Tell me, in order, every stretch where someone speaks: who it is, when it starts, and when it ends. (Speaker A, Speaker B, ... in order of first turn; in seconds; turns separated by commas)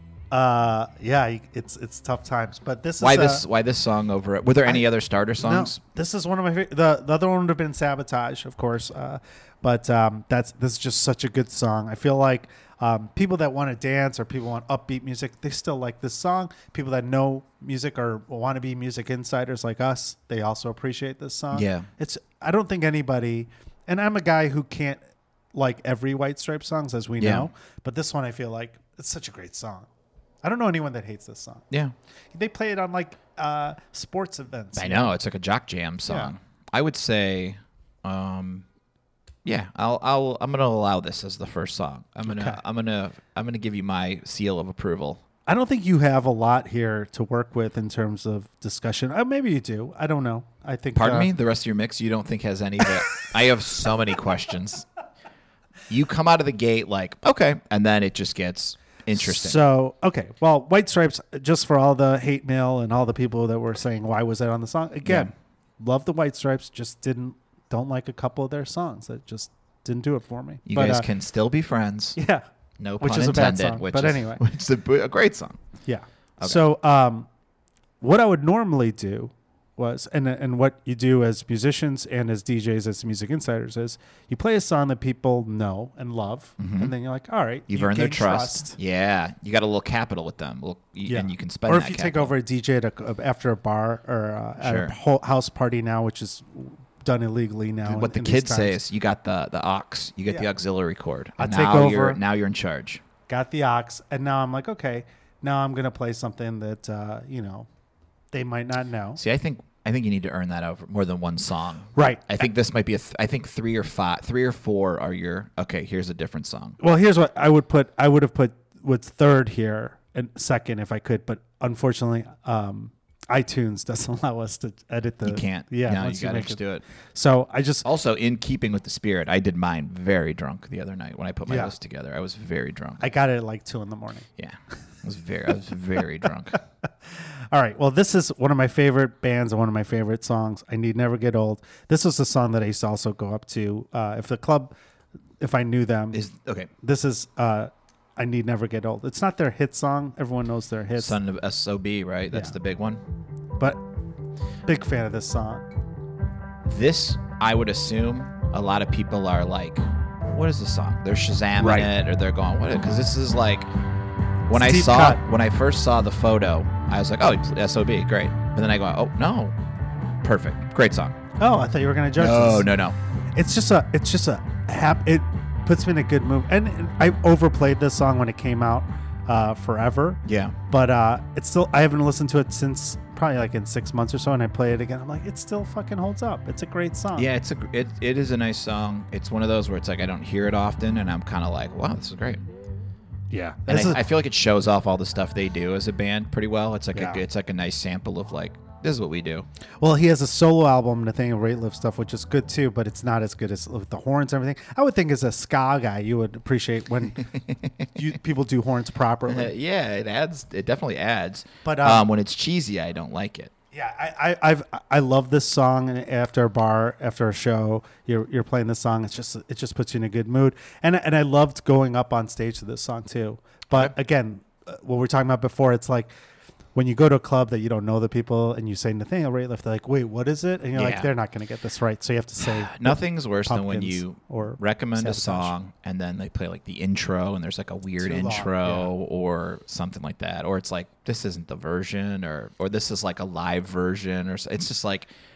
Speaker A: 0.3-3.4, Speaker B: 3.0-5.8, Speaker A: 5.4-25.0, Speaker B: 21.5-21.9, Speaker A: 25.5-29.9, Speaker B: 27.2-27.5, Speaker A: 30.4-31.6, Speaker A: 32.3-35.1, Speaker B: 34.8-38.6, Speaker A: 36.1-36.3, Speaker B: 39.4-45.2, Speaker A: 42.2-42.6, Speaker A: 45.5-51.3, Speaker B: 50.9-54.9, Speaker B: 55.9-59.6, Speaker A: 59.1-71.1, Speaker B: 65.0-65.3, Speaker B: 70.7-72.2, Speaker A: 72.2-72.4, Speaker B: 72.8-75.6, Speaker A: 73.0-74.4, Speaker A: 75.9-77.3, Speaker A: 78.0-88.8, Speaker B: 86.6-86.9, Speaker B: 87.7-92.3, Speaker A: 91.0-98.8, Speaker B: 94.6-94.9, Speaker B: 97.8-103.0, Speaker A: 101.4-102.2, Speaker A: 103.3-107.7, Speaker A: 108.3-109.2, Speaker B: 109.2-116.8, Speaker A: 111.9-112.4, Speaker A: 116.8-126.6, Speaker B: 125.2-126.8, Speaker A: 127.1-127.9, Speaker B: 127.8-133.0, Speaker A: 131.5-131.8, Speaker A: 133.0-134.3, Speaker B: 134.4-136.6, Speaker A: 137.1-144.7, Speaker A: 145.4-146.2, Speaker B: 146.1-146.7, Speaker A: 146.8-151.2, Speaker B: 151.0-153.0, Speaker A: 154.7-155.7, Speaker B: 156.7-163.7, Speaker A: 161.6-161.9, Speaker B: 164.5-169.6, Speaker A: 164.5-165.2, Speaker B: 170.2-171.2, Speaker A: 171.4-172.7, Speaker B: 172.2-172.9, Speaker A: 173.3-187.3, Speaker B: 180.2-180.6, Speaker B: 187.1-192.4, Speaker A: 193.3-194.0, Speaker B: 193.7-199.4, Speaker A: 196.9-197.2, Speaker A: 199.8-207.3, Speaker B: 207.3-207.9, Speaker A: 207.9-209.5, Speaker B: 209.3-213.5, Speaker A: 211.6-212.1, Speaker A: 213.7-226.1, Speaker A: 226.8-235.5, Speaker B: 230.8-231.1, Speaker B: 232.4-245.1, Speaker A: 238.0-238.9